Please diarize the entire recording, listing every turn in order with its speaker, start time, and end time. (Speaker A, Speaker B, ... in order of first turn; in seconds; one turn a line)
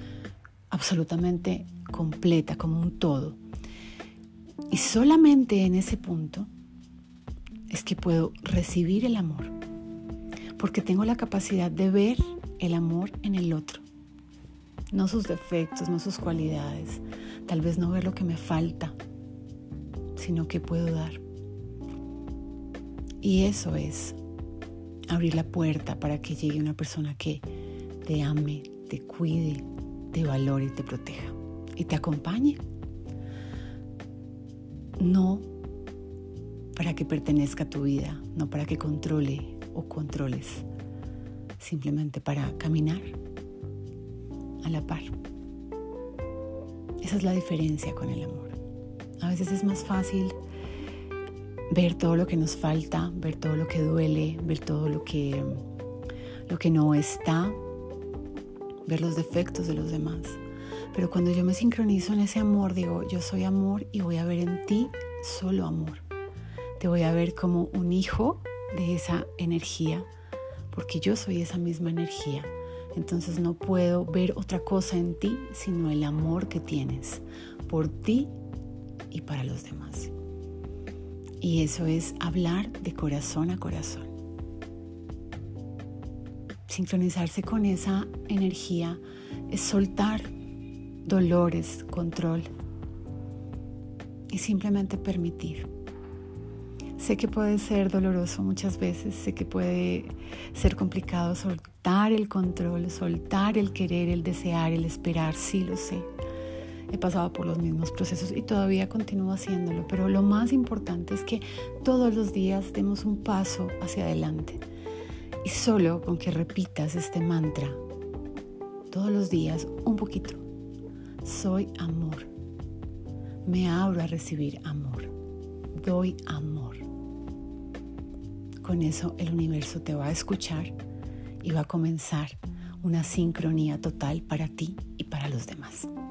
Speaker A: 0.7-3.4
Speaker A: 4.7-6.5
Speaker A: 7.7-9.5
Speaker A: 10.6-13.8
Speaker A: 14.9-18.9
Speaker A: 20.1-21.2
Speaker A: 23.2-24.2
Speaker A: 25.1-27.4
Speaker A: 28.0-32.6
Speaker A: 35.0-35.5
Speaker A: 36.7-40.6
Speaker A: 41.6-43.2
Speaker A: 44.6-45.1
Speaker A: 47.0-48.6
Speaker A: 49.2-50.4
Speaker A: 51.7-55.6
Speaker A: 56.5-57.6
Speaker A: 58.9-60.4
Speaker A: 60.9-66.0
Speaker A: 66.8-70.1
Speaker A: 70.7-78.3
Speaker A: 79.1-80.1
Speaker A: 81.4-84.1
Speaker A: 86.7-90.3
Speaker A: 91.0-92.5
Speaker A: 94.3-95.7
Speaker A: 97.0-106.1
Speaker A: 106.9-114.6
Speaker A: 115.4-117.8
Speaker A: 118.9-120.4
Speaker A: 121.2-122.3
Speaker A: 123.4-125.1
Speaker A: 125.7-126.8
Speaker A: 128.6-130.7
Speaker A: 131.4-135.9